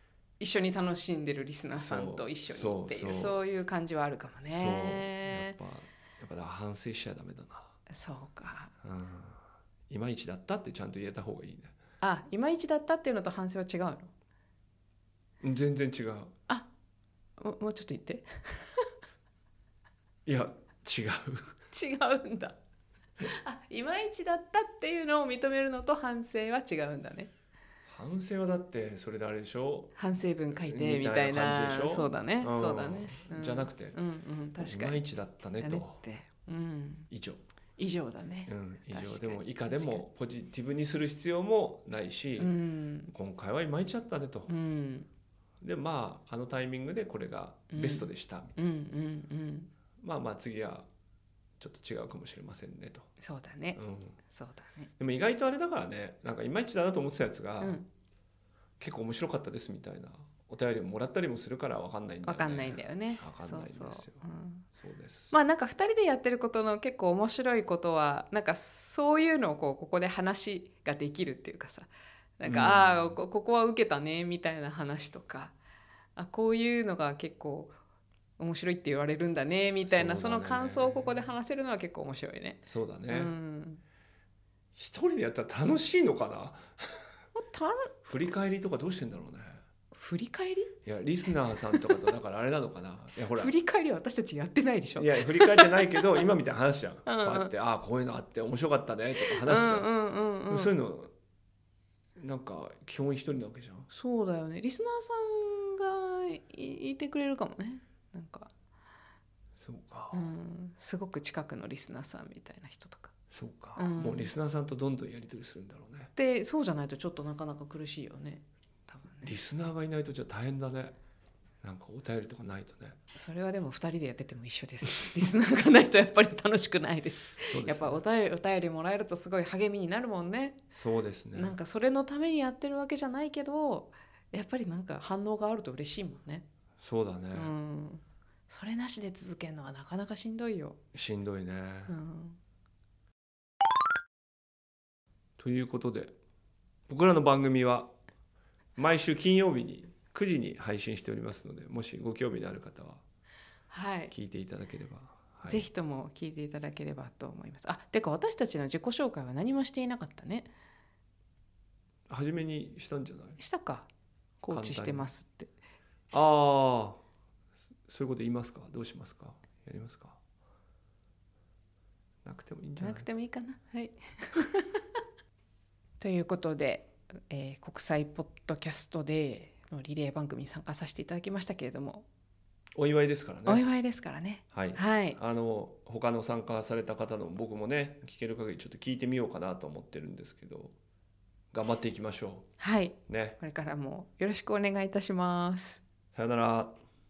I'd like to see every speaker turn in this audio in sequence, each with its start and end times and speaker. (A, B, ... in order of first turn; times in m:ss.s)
0:00.4-0:05.5 A
0:01.7-0:03.3 B
0:04.5-0:07.8 B
0:07.9-0:08.7 A
0:08.8-0:11.7 B
0:12.0-0:14.1 A
0:15.4-0:16.3 B
0:17.4-0:18.9 A
0:20.2-0:21.5 B
0:21.7-0:22.6 A
0:23.2-0:27.3 A
0:27.9-0:29.9 B
0:30.0-0:35.0 A
0:30.5-0:34.0 B
0:34.6-0:36.0 B
0:35.6-0:37.1 A
0:37.1-0:37.4 B
0:37.8-0:40.0 A
0:38.5-0:42.5 B
0:42.4-0:43.1 A
0:43.1-0:44.5 B
0:44.5-0:45.1 A
0:45.6-0:48.6 B
0:47.7-0:49.7 A
0:50.0-0:50.9 B
0:51.6-0:53.1 B
0:53.2-0:54.9 A
0:53.8-0:54.2 B
0:55.0-0:57.8 B
0:57.6-0:57.9 A
0:58.8-1:04.2 B
1:02.2-1:04.7 A
1:04.7-1:05.4 B
1:05.3-1:15.5 A
1:12.4-1:13.2 B
1:16.2-1:17.7 A
1:18.4-1:23.8 A
1:19.9-1:21.3 B
1:22.6-1:23.3 B
1:24.8-1:27.0 B
1:27.3-1:27.9 A
1:28.0-1:29.6 B
1:29.9-1:30.7 A
1:30.8-1:33.5 B
1:33.3-1:36.2 A
1:35.0-1:39.9 B
1:37.0-1:37.5 A
1:39.2-1:40.7 A
1:40.5-1:41.1 B
1:42.2-1:43.9 B
1:43.9-1:48.5 A
1:49.6-1:50.2 B
1:50.1-1:53.1 A
1:53.3-1:56.1 B
1:53.8-1:54.3 A
1:56.1-1:59.3 A
1:59.2-2:01.0 B
2:01.6-2:03.0 B
2:03.1-2:10.6 A
2:07.4-2:08.0 B
2:10.7-2:11.6 B
2:11.3-2:16.4 A
2:16.8-2:17.5 B
2:17.3-2:20.8 A
2:20.9-2:21.9 B
2:21.9-2:22.4 A
2:25.4-2:26.1 B
2:26.9-2:27.9 B
2:28.8-2:33.0 B
2:33.7-2:34.1 A
2:34.1-2:35.6 B
2:35.4-2:40.5 A
2:42.1-2:43.4 B
2:43.4-2:43.9 A
2:44.4-2:45.5 A
2:44.5-2:45.1 B
2:46.1-2:47.0 B
2:47.8-2:50.2 B
2:52.2-2:53.1 B
2:52.8-2:54.8 A
2:56.0-3:02.0 A
3:02.8-3:03.6 B
3:03.5-3:05.2 A
3:04.5-3:10.7 B
3:11.5-3:12.5 B
3:12.6-3:15.8 A
3:13.1-3:13.4 B
3:16.1-3:16.8 B